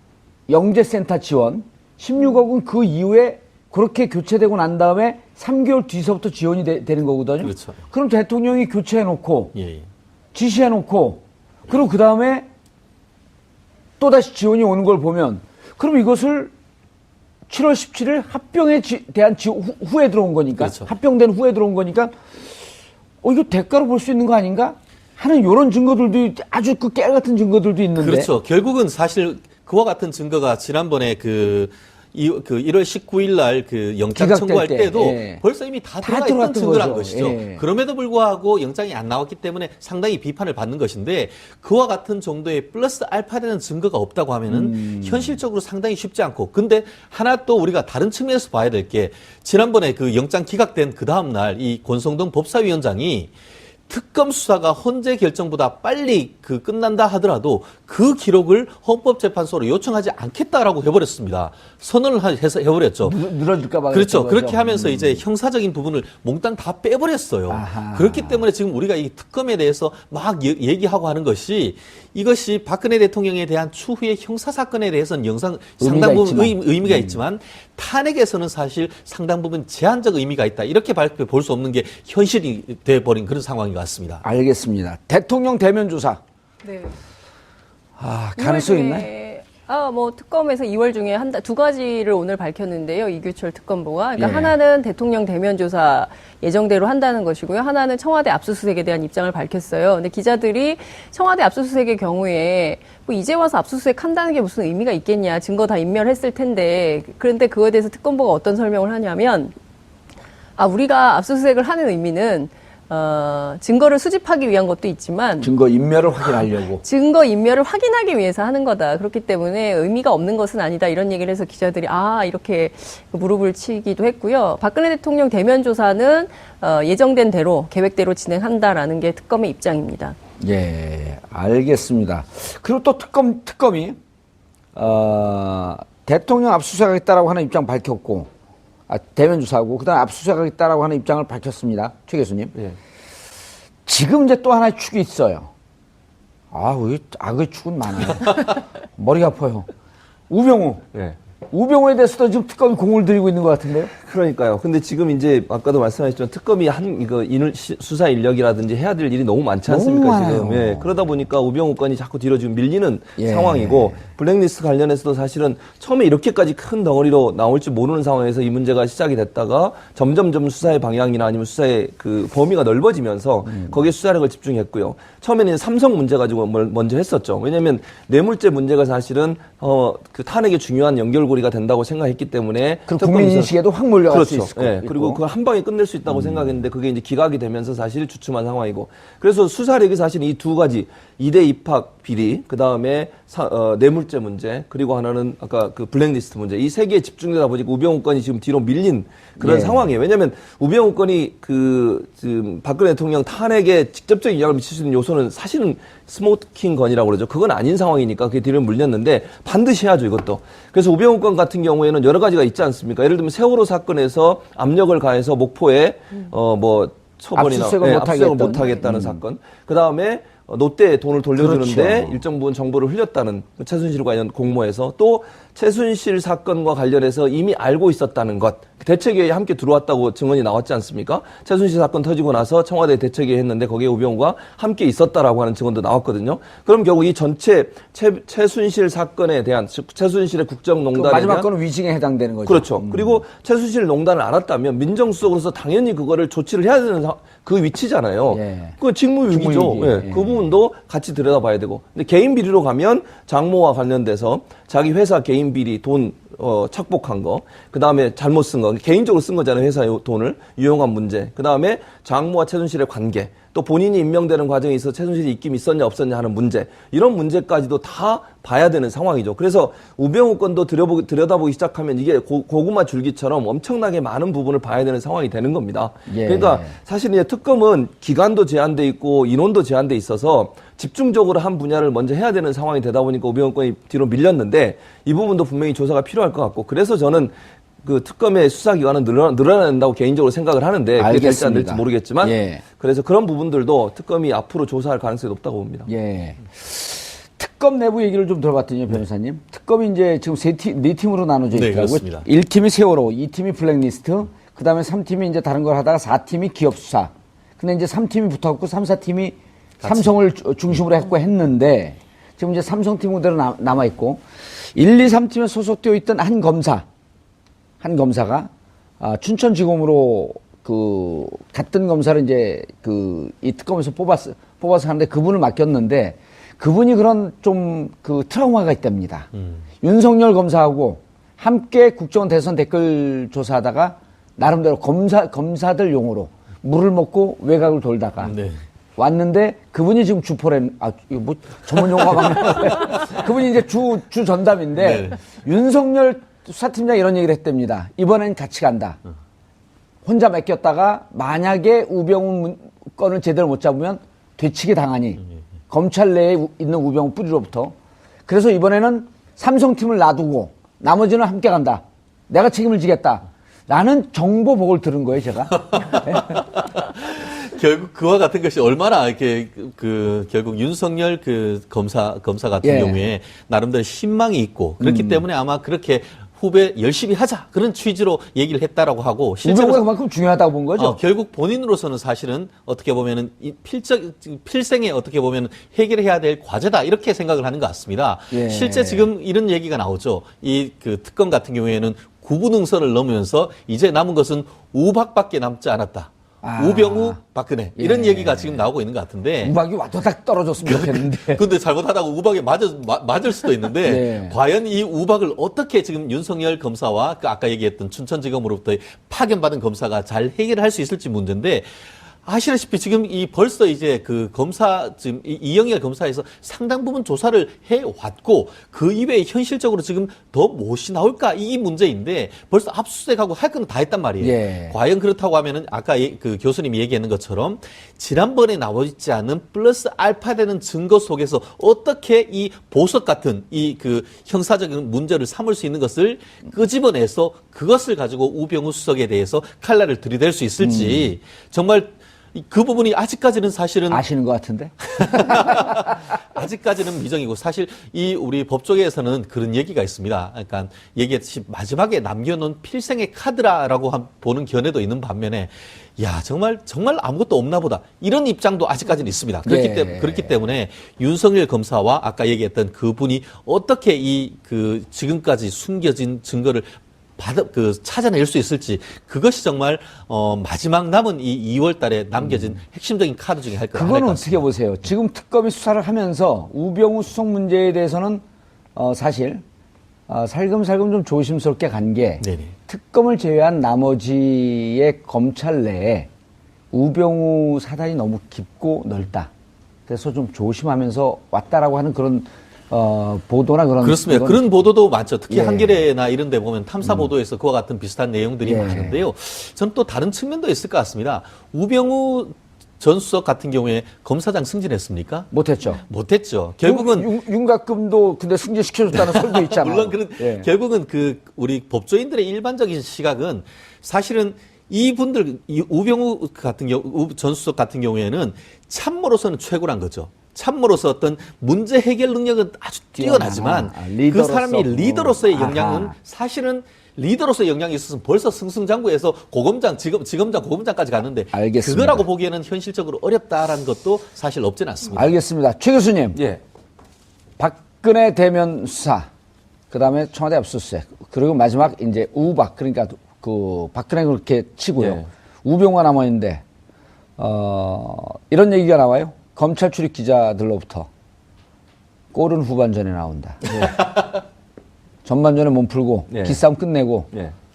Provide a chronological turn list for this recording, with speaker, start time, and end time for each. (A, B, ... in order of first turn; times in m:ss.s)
0:00.5-0:09.5 A
0:07.4-0:07.8 B
0:09.5-0:09.8 B
0:10.3-0:12.5 A
0:14.0-0:16.5 A
0:17.5-0:22.2 A
0:20.6-0:20.9 B
0:23.2-0:28.3 A
0:28.0-0:53.3 B
0:34.1-0:35.4 A
0:36.0-0:37.6 A
0:44.5-0:45.4 A
0:53.9-1:03.2 B
1:03.0-1:05.2 A
1:03.9-1:24.2 B
1:07.5-1:08.4 A
1:15.8-1:17.2 A
1:24.2-1:26.2 A
1:26.6-1:26.9 C
1:28.0-1:29.1 A
1:28.4-1:49.5 C
1:34.2-1:34.5 A
1:50.6-1:55.5 C
1:55.4-1:56.8 A
1:56.8-2:10.2 C
2:10.4-2:14.0 A
2:14.7-2:18.3 A
2:18.9-2:22.6 A
2:23.8-2:25.5 A
2:26.5-2:29.7 A
2:30.3-2:30.9 A
2:31.5-2:33.9 A
2:34.0-3:03.5 D
2:39.7-2:40.9 A
2:43.2-2:44.0 A
3:02.9-3:05.2 A
3:04.1-4:01.5 D
3:19.4-3:19.8 A
3:37.4-3:39.2 A
3:41.4-3:42.2 A
4:00.9-4:03.2 A
4:02.4-4:55.9 D
4:08.3-4:10.4 A
4:36.1-4:36.7 A
4:51.0-4:52.6 A
4:55.9-5:16.8 A
5:01.5-5:02.2 B
5:09.8-5:10.1 B
5:17.8-5:29.3 A
5:29.8-5:38.3 A
5:38.2-5:38.6 B
5:39.0-5:49.0 A
5:44.8-5:45.2 B
5:50.0-5:57.7 A
5:58.3-6:06.4 A
6:05.6-6:19.8 B
6:12.6-6:13.0 A
6:14.8-6:15.2 A
6:19.4-6:21.0 A
6:20.8-6:39.5 B
6:28.3-6:29.1 A
6:36.4-6:37.2 A
6:37.8-6:38.7 A
6:39.4-6:41.4 A
6:40.6-6:51.7 B
6:43.8-6:44.4 A
6:52.2-7:24.0 B
7:04.2-7:04.8 A
7:20.6-7:21.1 A
7:23.9-7:25.9 A
7:25.0-7:54.5 B
7:39.4-7:40.3 A
7:52.2-7:52.6 A
7:53.7-7:58.2 A
7:58.7-7:59.4 A
8:00.1-8:06.1 A
8:02.2-8:02.5 B
8:06.7-8:09.3 A
8:09.9-8:14.4 A
8:13.8-8:25.3 B
8:15.3-8:15.8 A
8:16.8-8:17.1 A
8:18.4-8:19.0 A
8:25.3-8:25.8 A
8:25.8-8:27.1 B
8:26.6-8:30.5 A
8:28.9-8:55.1 B
8:43.0-8:45.9 A
8:51.3-8:52.0 A
8:54.9-8:56.2 A
8:56.2-8:56.4 D
8:57.4-8:59.1 A
8:59.7-9:06.4 A
9:04.8-9:05.1 D
9:07.2-9:10.9 A
9:12.1-9:13.9 A
9:15.0-9:17.1 A
9:16.1-9:16.4 D